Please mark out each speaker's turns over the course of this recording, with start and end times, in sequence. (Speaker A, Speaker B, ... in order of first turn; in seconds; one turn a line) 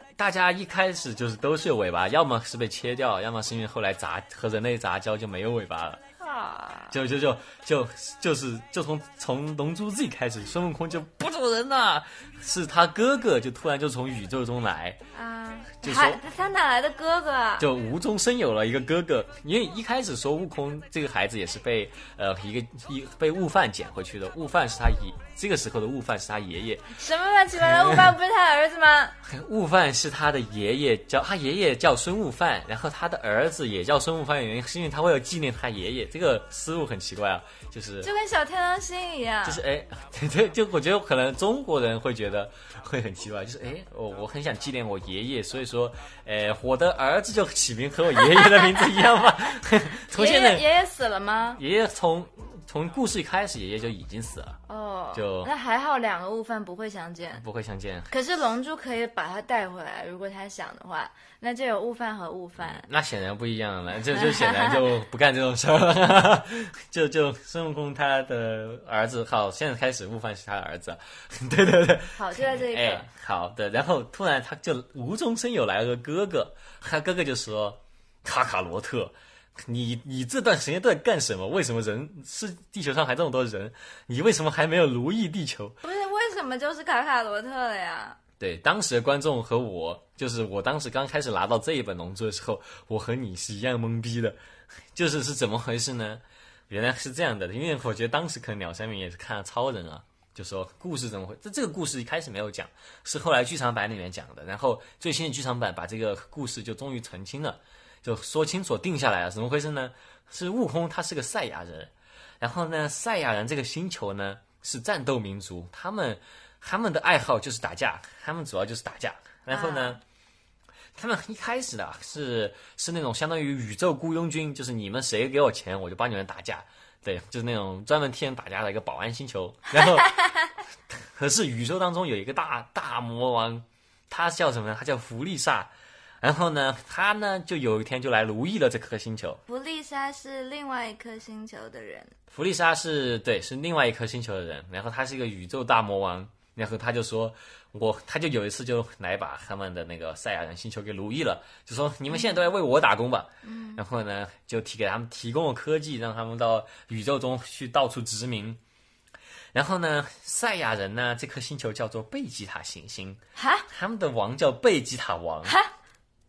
Speaker A: 0.2-6.0
Speaker B: 6.2-7.0
Speaker A: 6.9-15.0
Speaker B: 15.1-17.7
Speaker A: 15.8-16.2
Speaker A: 17.6-26.9
Speaker B: 26.9-29.1
Speaker A: 27.6-28.1
Speaker A: 29.2-38.1
Speaker B: 38.0-39.6
Speaker A: 39.4-50.6
Speaker B: 48.3-49.0
Speaker B: 50.1-51.6
Speaker A: 51.5-54.6
Speaker B: 54.7-57.4
Speaker A: 55.1-55.5
Speaker A: 57.4-58.1
Speaker B: 58.1-62.9
Speaker A: 62.6-85.8
Speaker B: 64.2-64.8
Speaker B: 72.1-73.1
Speaker B: 85.8-88.2
Speaker A: 88.4-94.3
Speaker A: 94.9-120.0
Speaker B: 119.5-120.0
Speaker A: 121.0-130.1
Speaker A: 130.9-139.4
Speaker B: 139.5-142.1
Speaker A: 142.3-158.6
Speaker B: 153.4-153.8
Speaker A: 159.5-165.6
Speaker B: 163.3-163.7
Speaker B: 165.4-165.7